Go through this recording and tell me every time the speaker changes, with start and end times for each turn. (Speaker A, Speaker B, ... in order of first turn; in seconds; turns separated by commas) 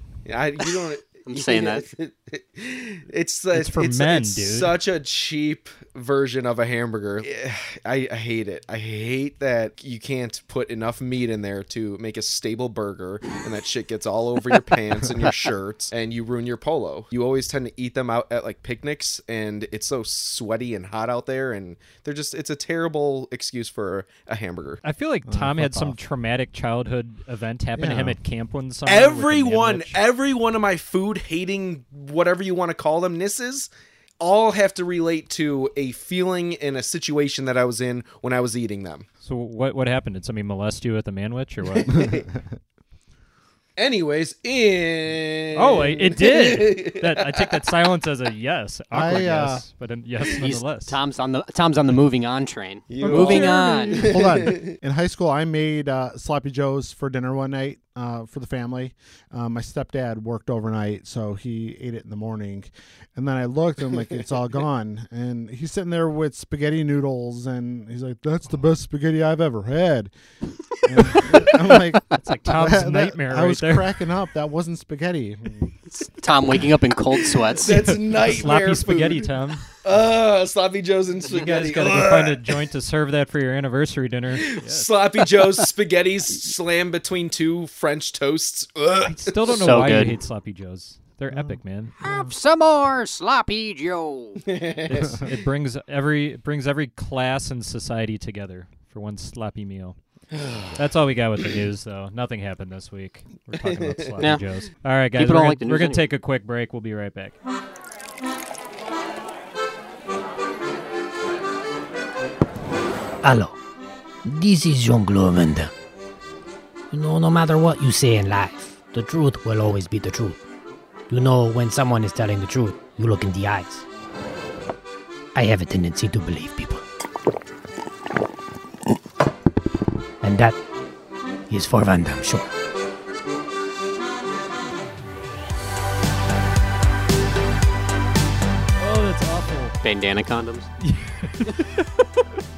Speaker A: 0.2-24.8, Speaker B: 1.2-1.9, Speaker C: 3.5-4.8, Speaker C: 24.8-30.0, Speaker D: 25.3-26.0, Speaker D: 27.8-28.2, Speaker A: 28.9-39.1, Speaker C: 39.2-42.1, Speaker A: 41.6-42.3, Speaker D: 42.1-42.4, Speaker A: 43.8-47.6, Speaker C: 45.5-51.0, Speaker D: 48.9-49.6, Speaker B: 50.4-54.2, Speaker A: 52.9-54.8, Speaker C: 53.0-54.1, Speaker D: 54.1-70.1, Speaker D: 70.8-75.8, Speaker C: 72.1-73.9, Speaker B: 75.9-77.8, Speaker A: 77.5-79.3, Speaker C: 77.7-79.7, Speaker A: 79.8-82.6, Speaker C: 81.3-84.9, Speaker A: 84.4-89.6, Speaker C: 89.0-92.0, Speaker B: 89.5-90.2, Speaker D: 91.3-91.6, Speaker B: 92.0-94.4, Speaker A: 94.4-95.3, Speaker C: 94.9-100.0, Speaker A: 100.3-100.8, Speaker C: 100.8-107.4, Speaker A: 103.6-104.1, Speaker B: 105.1-106.0, Speaker E: 113.2-113.6, Speaker E: 114.2-115.7, Speaker E: 116.9-120.4, Speaker E: 121.1-123.8, Speaker E: 125.3-126.8, Speaker E: 130.2-130.6, Speaker E: 131.5-132.5, Speaker C: 138.8-139.8, Speaker B: 139.8-140.7, Speaker C: 140.8-142.2